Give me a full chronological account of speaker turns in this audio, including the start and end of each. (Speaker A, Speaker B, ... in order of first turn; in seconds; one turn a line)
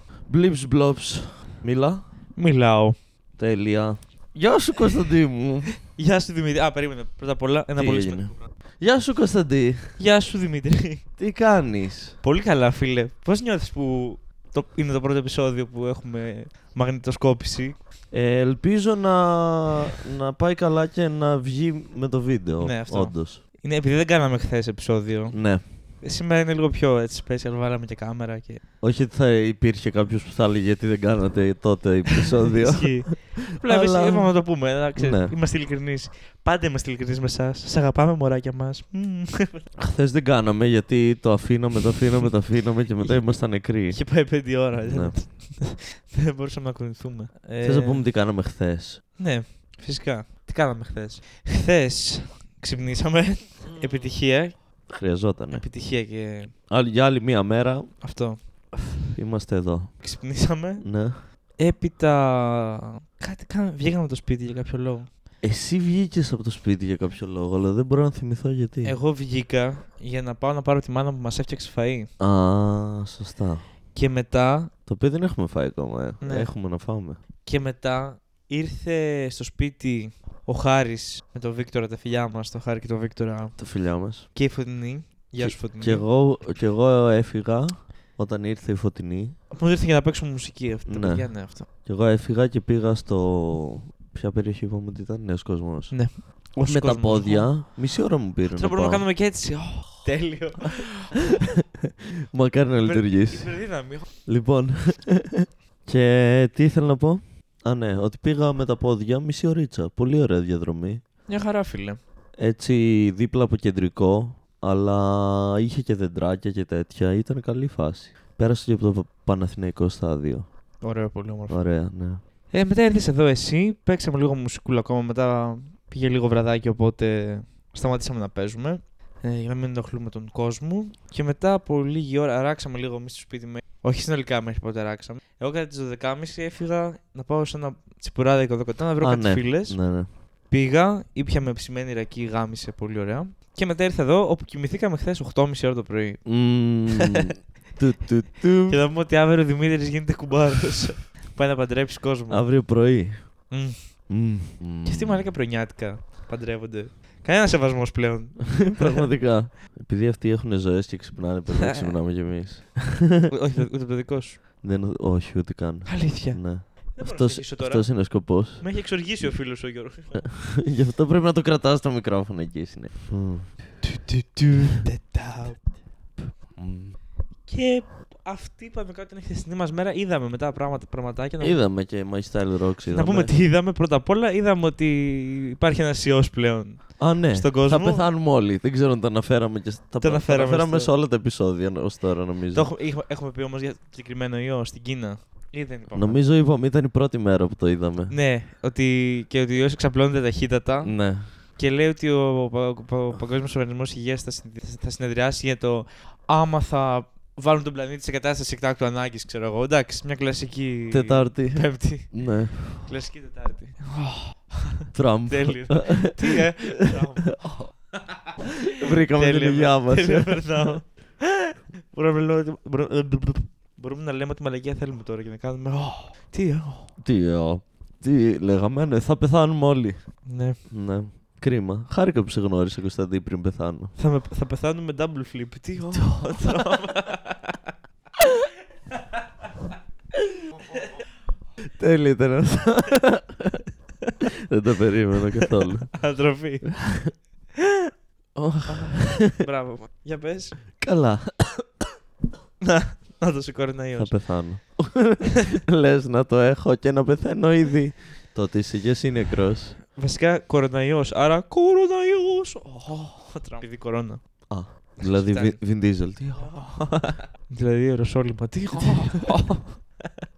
Speaker A: 0.3-2.0
Speaker B: 2.3-3.0
Speaker A: 3.4-5.7
Speaker B: 5.9-8.4
Speaker A: 7.8-10.0
Speaker B: 10.0-11.0
Speaker A: 11.2-12.2
Speaker B: 12.2-17.8
Speaker A: 18.1-23.4
Speaker B: 22.6-28.6
Speaker A: 25.3-25.6
Speaker A: 28.8-35.4
Speaker B: 32.6-39.6
Speaker A: 39.8-45.2
Speaker B: 43.0-48.1
Speaker A: 47.6-49.0
Speaker B: 49.2-54.6
Speaker A: 53.7-55.7
Speaker B: 55.5-56.5
Speaker A: 56.7-58.0
Speaker B: 58.0-58.7
Speaker A: 58.8-60.1
Speaker B: 60.0-60.9
Speaker A: 60.8-61.2
Speaker B: 61.5-65.1
Speaker A: 65.4-69.0
Speaker B: 68.8-72.1
Speaker A: 72.2-73.7
Speaker B: 73.9-74.7
Speaker A: 74.8-77.2
Speaker B: 76.2-76.5
Speaker B: 77.4-86.1
Speaker A: 83.6-84.3
Speaker A: 85.4-89.4
Speaker B: 89.5-91.7
Speaker A: 90.8-99.1
Speaker B: 95.9-97.6
Speaker B: 98.5-101.3
Speaker A: 102.3-111.0
Speaker B: 102.8-104.1
Speaker B: 111.3-112.0
Speaker A: 112.4-120.5
Speaker B: 120.8-121.7
Speaker A: 121.5-122.2
Speaker B: 122.5-139.8
Speaker A: 139.0-140.1
Speaker B: 140.5-146.2
Speaker A: 146.2-148.8
Speaker B: 148.7-152.5
Speaker A: 152.3-153.5
Speaker B: 153.5-154.1
Speaker A: 154.1-155.3
Speaker B: 154.8-159.1
Speaker A: 158.6-163.6
Speaker B: 163.2-164.4
Speaker A: 164.6-169.4
Speaker B: 165.8-170.3
Speaker A: 170.3-173.8
Speaker B: 173.8-175.7
Speaker A: 176.2-176.9
Speaker B: 177.4-181.7
Speaker A: 181.4-183.4
Speaker B: 182.9-188.1
Speaker A: 187.0-192.7
Speaker B: 190.0-190.9
Speaker B: 192.5-196.2
Speaker A: 195.9-198.2
Speaker B: 198.1-218.5
Speaker A: 200.8-201.3
Speaker A: 210.9-213.0
Speaker A: 214.9-216.2
Speaker A: 218.7-220.8
Speaker B: 219.0-226.9
Speaker A: 227.0-233.9
Speaker B: 230.2-230.6
Speaker B: 233.9-237.5
Speaker A: 235.9-236.7
Speaker A: 241.8-243.6
Speaker A: 244.5-246.1
Speaker B: 246.0-247.2
Speaker A: 248.3-249.4
Speaker B: 248.7-250.7
Speaker A: 250.8-251.8
Speaker B: 252.6-254.2
Speaker A: 253.9-259.8
Speaker B: 259.9-265.6
Speaker A: 264.5-266.6
Speaker B: 266.3-269.8